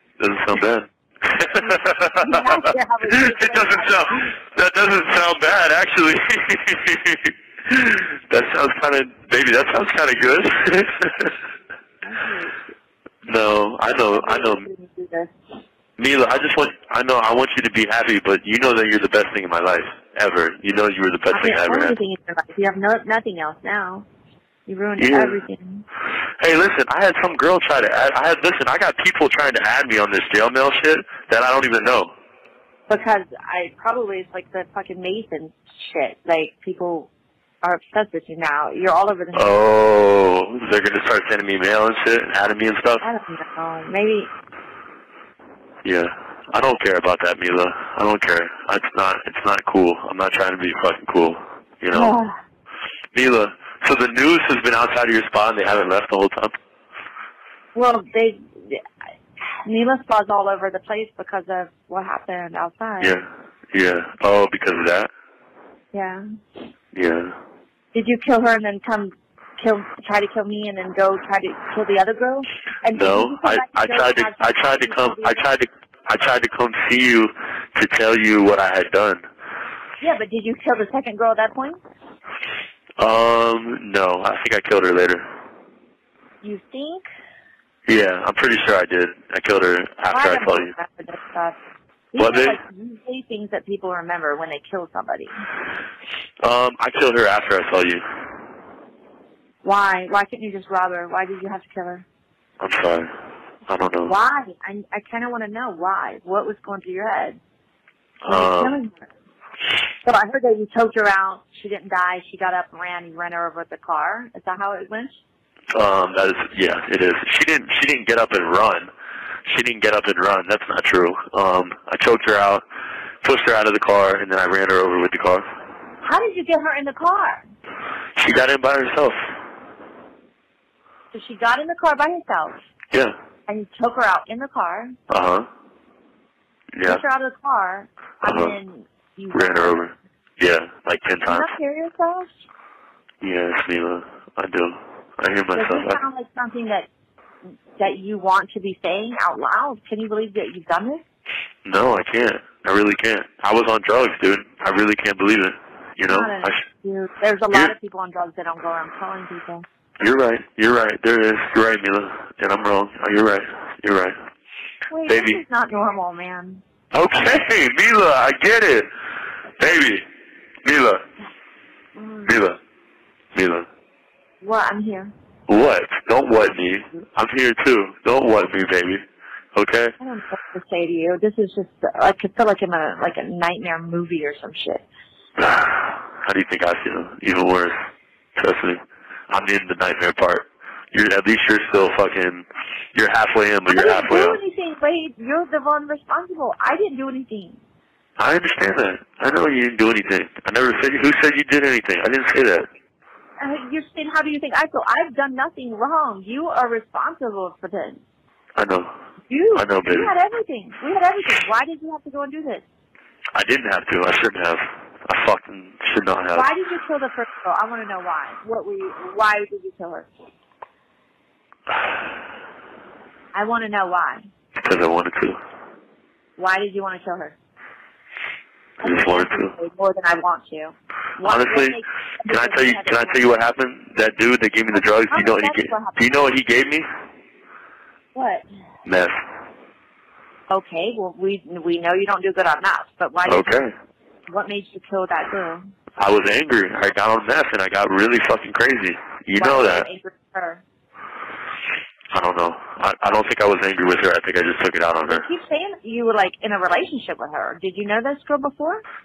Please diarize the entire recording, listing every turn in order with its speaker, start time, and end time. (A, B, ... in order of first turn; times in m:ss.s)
0:00.2-0:11.4 A
0:01.6-0:04.3 B
0:12.0-0:12.6 B
0:13.2-0:14.6 A
0:14.1-0:15.3 B
0:16.0-0:22.0 A
0:21.3-0:24.0 B
0:24.7-0:25.8 B
0:25.0-0:25.4 A
0:26.4-0:32.1 A
0:32.9-0:37.1 B
0:37.6-0:39.5 B
0:39.3-0:43.0 A
0:43.0-0:44.3 B
0:45.8-0:52.1 A
0:51.9-0:52.3 B
0:53.1-0:56.5 A
0:57.7-0:58.8 B
0:59.4-1:03.2 B
1:03.0-1:05.1 A
1:05.9-1:06.2 B
1:06.9-1:07.3 A
1:07.9-1:15.4 B
1:12.9-1:19.2 A
1:20.0-1:21.8 B
1:23.0-1:25.2 A
1:26.4-1:27.0 B
1:27.9-1:30.7 A
1:30.1-1:31.6 B
1:32.1-1:35.4 B
1:32.2-1:32.6 A
1:36.4-1:38.0 A
1:39.6-1:42.0 B
1:42.6-1:43.1 A
1:43.7-1:44.2 A
1:44.0-1:47.4 B
1:48.2-1:48.7 A
1:48.3-1:49.0 B
1:50.0-1:55.1 B
1:55.7-1:58.9 A
1:59.4-2:02.6 A
2:03.2-2:05.4 A
2:06.0-2:07.4 B
2:08.2-2:09.2 A
2:11.1-2:12.6 B
2:13.5-2:14.9 B
2:15.1-2:15.5 A
2:16.7-2:17.0 A
2:16.8-2:19.9 B
2:18.2-2:18.6 A
2:19.3-2:21.5 A
2:21.2-2:22.3 B
2:23.2-2:26.0 A
2:25.5-2:26.9 B
2:27.8-2:31.0 B
2:31.6-2:36.6 A
2:36.1-2:39.6 B
2:40.0-2:44.2 A
2:44.9-2:46.6 B
2:45.1-2:45.4 A
2:46.9-2:48.9 A
2:49.6-2:50.0 A
2:50.6-2:51.0 A
2:52.0-2:52.4 B
2:52.2-2:52.6 A
2:53.3-2:53.7 A
2:54.4-2:55.1 B
2:55.5-2:59.0 A
2:59.5-2:59.9 A
3:00.0-3:04.8 B
3:05.4-3:07.7 A
3:08.4-3:14.4 A
3:13.7-3:17.6 B
3:18.2-3:22.7 A
3:23.4-3:28.0 B
3:28.6-3:28.9 A
3:29.3-3:32.6 B
3:29.6-3:30.1 A
3:33.3-3:36.5 A
3:36.3-3:40.1 B
3:43.3-3:44.2 B
3:44.6-3:45.4 A
3:46.4-3:47.3 B
3:48.8-3:49.5 A
3:48.8-3:53.2 B
3:51.2-3:56.8 A
3:54.7-3:56.1 B
3:58.1-3:58.4 B
3:58.8-3:59.2 A
4:00.5-4:03.6 B
4:03.2-4:03.7 A
4:04.3-4:05.6 B
4:06.0-4:09.8 A
4:09.4-4:10.6 B
4:12.1-4:15.2 A
4:15.0-4:18.8 B